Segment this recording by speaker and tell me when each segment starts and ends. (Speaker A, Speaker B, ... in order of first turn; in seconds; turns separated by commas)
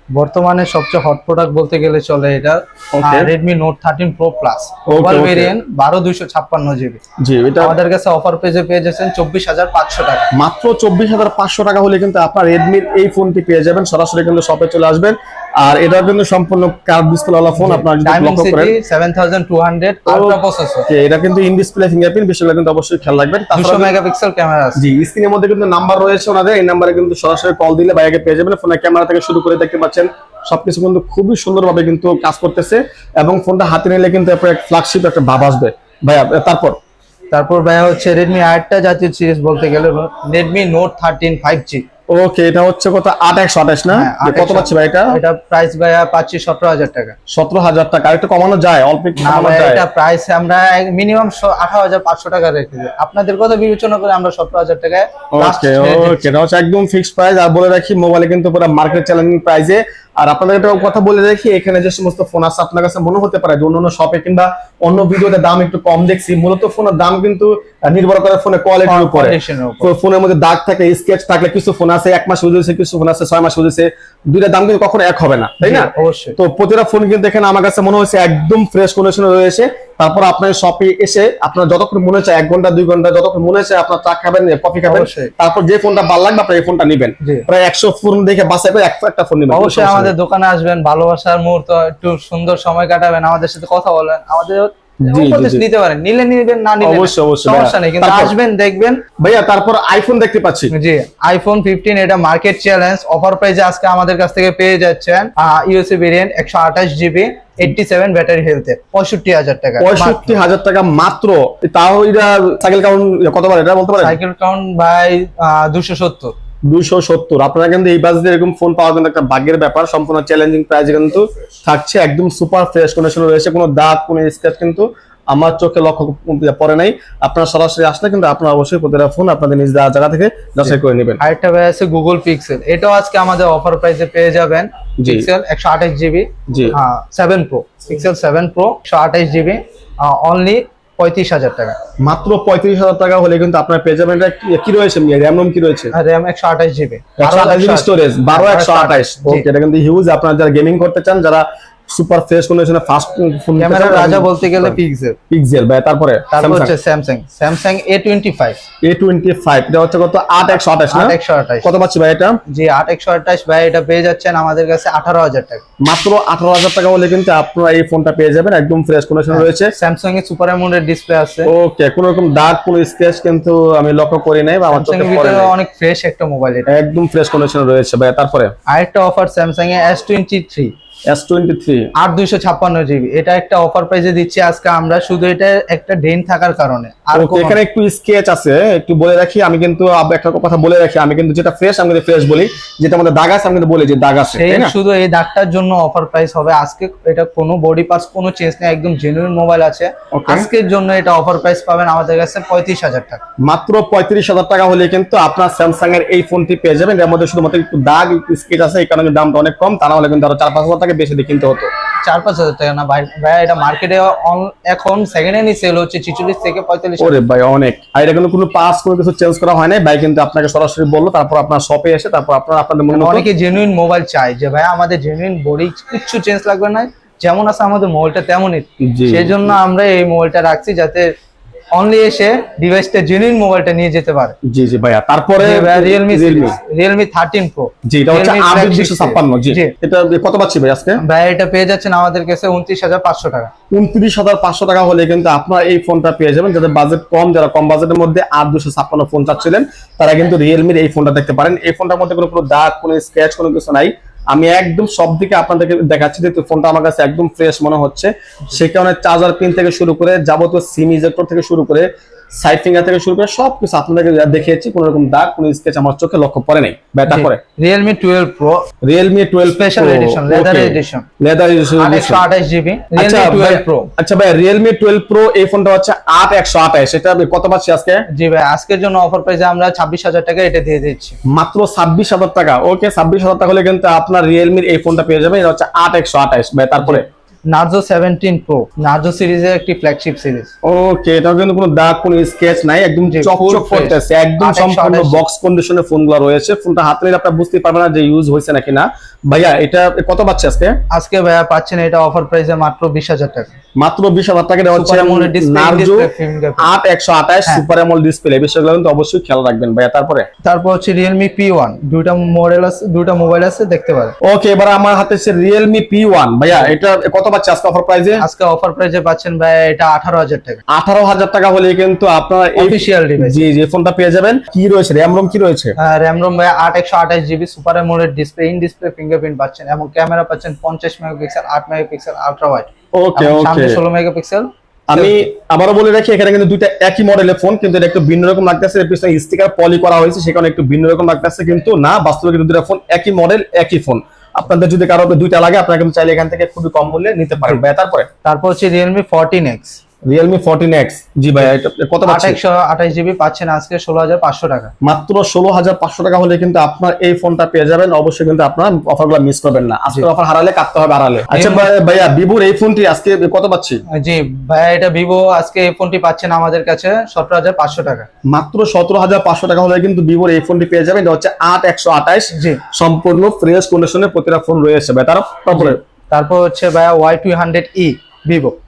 Speaker A: 0.1-7.0, Speaker B: 3.0-3.3, Speaker B: 4.9-5.5, Speaker B: 7.2-7.8, Speaker A: 7.6-10.3, Speaker B: 10.3-18.7, Speaker A: 17.6-20.9, Speaker B: 20.1-23.9, Speaker A: 23.5-24.8, Speaker B: 24.8-36.8, Speaker A: 37.3-41.8, Speaker B: 42.1-45.2, Speaker A: 43.9-47.1, Speaker B: 47.3-49.8, Speaker A: 49.2-56.2, Speaker B: 55.3-90.1, Speaker A: 68.8-69.9, Speaker A: 75.6-76.3, Speaker A: 84.8-85.3, Speaker A: 87.2-87.5, Speaker A: 89.5-99.0, Speaker B: 95.0-95.6, Speaker B: 96.8-98.3, Speaker B: 99.2-100.7, Speaker A: 100.7-110.4, Speaker B: 109.8-114.2, Speaker A: 114.0-116.3, Speaker B: 116.7-131.2, Speaker A: 130.6-141.8, Speaker B: 135.0-135.3, Speaker B: 136.5-136.8, Speaker B: 142.0-145.9, Speaker A: 145.9-149.4, Speaker B: 147.2-154.8, Speaker A: 153.6-155.2, Speaker B: 155.3-156.7, Speaker A: 156.3-158.6, Speaker B: 158.8-162.4, Speaker A: 160.9-161.7, Speaker A: 162.5-165.6, Speaker B: 165.8-169.7, Speaker A: 169.3-171.5, Speaker B: 171.4-175.5, Speaker A: 174.7-176.7, Speaker B: 176.7-178.5, Speaker A: 178.7-180.7, Speaker B: 181.1-181.9, Speaker A: 181.9-187.6, Speaker B: 187.1-194.7, Speaker A: 194.3-203.2, Speaker B: 200.1-200.5, Speaker B: 203.4-211.7, Speaker A: 212.0-217.2, Speaker B: 217.0-223.2, Speaker A: 222.9-231.1, Speaker B: 228.8-229.5, Speaker A: 231.7-234.3, Speaker B: 234.4-236.6, Speaker A: 235.4-239.7, Speaker B: 237.8-241.0, Speaker A: 241.0-243.5, Speaker B: 243.7-267.4, Speaker A: 267.1-268.6, Speaker B: 268.8-272.3, Speaker A: 269.5-271.1, Speaker A: 271.8-273.9, Speaker B: 272.9-278.1, Speaker A: 278.1-281.2, Speaker B: 281.3-287.0, Speaker A: 286.8-290.5, Speaker B: 290.6-300.8, Speaker A: 293.1-295.2, Speaker A: 300.9-303.5, Speaker B: 303.8-310.2, Speaker A: 304.7-306.7, Speaker A: 310.4-314.1, Speaker B: 314.2-318.2, Speaker A: 318.2-320.6, Speaker B: 320.7-325.7, Speaker A: 322.6-323.5, Speaker A: 325.8-335.2, Speaker B: 332.9-333.8, Speaker B: 334.9-348.1, Speaker A: 348.2-349.8, Speaker B: 350.1-352.4, Speaker A: 352.1-354.7, Speaker B: 354.8-363.8, Speaker A: 361.3-361.7, Speaker A: 363.9-368.1, Speaker B: 368.3-375.8, Speaker A: 372.3-372.6, Speaker A: 375.5-378.5